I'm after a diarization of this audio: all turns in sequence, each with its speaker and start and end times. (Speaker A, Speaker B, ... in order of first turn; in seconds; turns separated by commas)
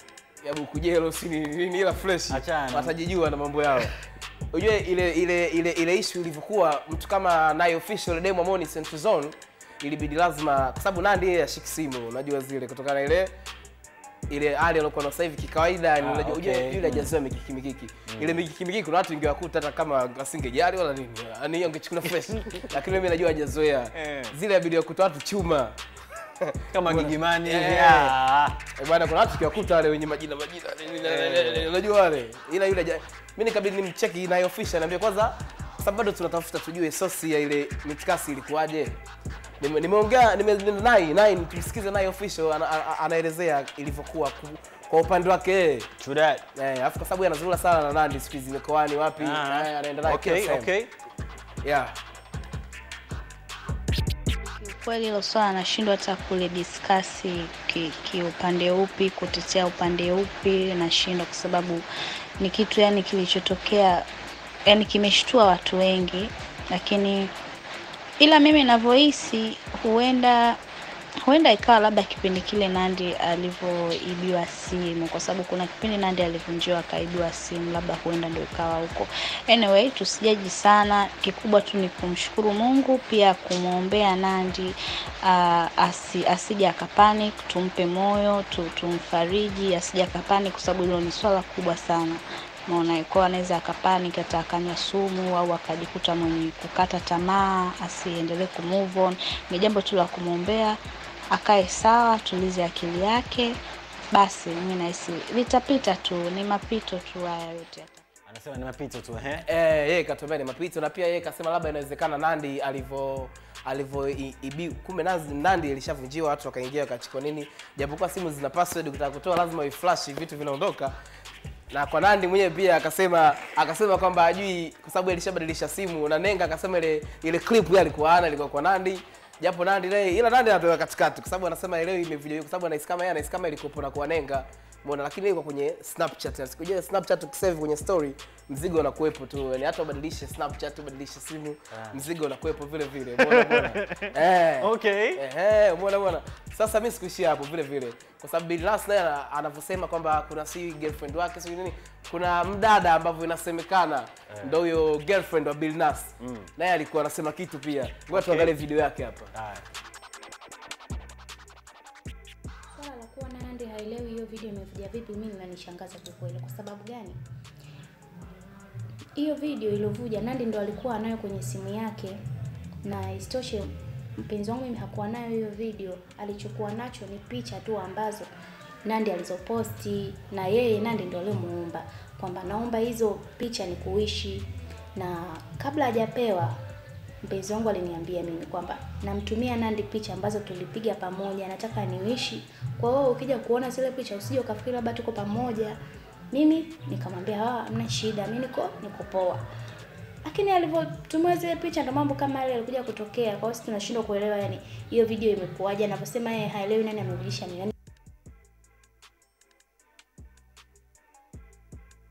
Speaker A: 0.4-3.9, Speaker B: 2.3-2.9, Speaker A: 4.5-13.3, Speaker A: 14.3-25.8, Speaker B: 16.0-17.1, Speaker B: 18.1-18.3, Speaker B: 23.9-24.3, Speaker A: 26.4-28.1, Speaker B: 26.7-28.6, Speaker A: 28.8-39.0, Speaker B: 31.1-31.7, Speaker A: 39.6-45.9, Speaker B: 46.0-46.4, Speaker A: 46.5-50.7, Speaker B: 49.2-50.9, Speaker A: 51.6-52.0, Speaker C: 54.6-61.9, Speaker C: 62.4-64.1, Speaker C: 64.7-67.3, Speaker C: 68.2-70.6, Speaker C: 71.3-84.7, Speaker C: 85.3-100.8, Speaker C: 101.3-103.6, Speaker C: 104.1-108.0, Speaker B: 108.3-109.5, Speaker A: 109.5-120.9, Speaker A: 121.7-159.3, Speaker B: 141.7-142.0, Speaker B: 143.2-144.1, Speaker B: 144.6-145.2, Speaker B: 156.2-156.5, Speaker B: 158.1-158.5, Speaker B: 159.3-159.6, Speaker D: 162.7-167.2, Speaker D: 169.2-172.2, Speaker D: 172.8-178.3, Speaker D: 178.8-186.6, Speaker D: 187.2-195.8, Speaker D: 196.3-199.4, Speaker D: 200.2-207.7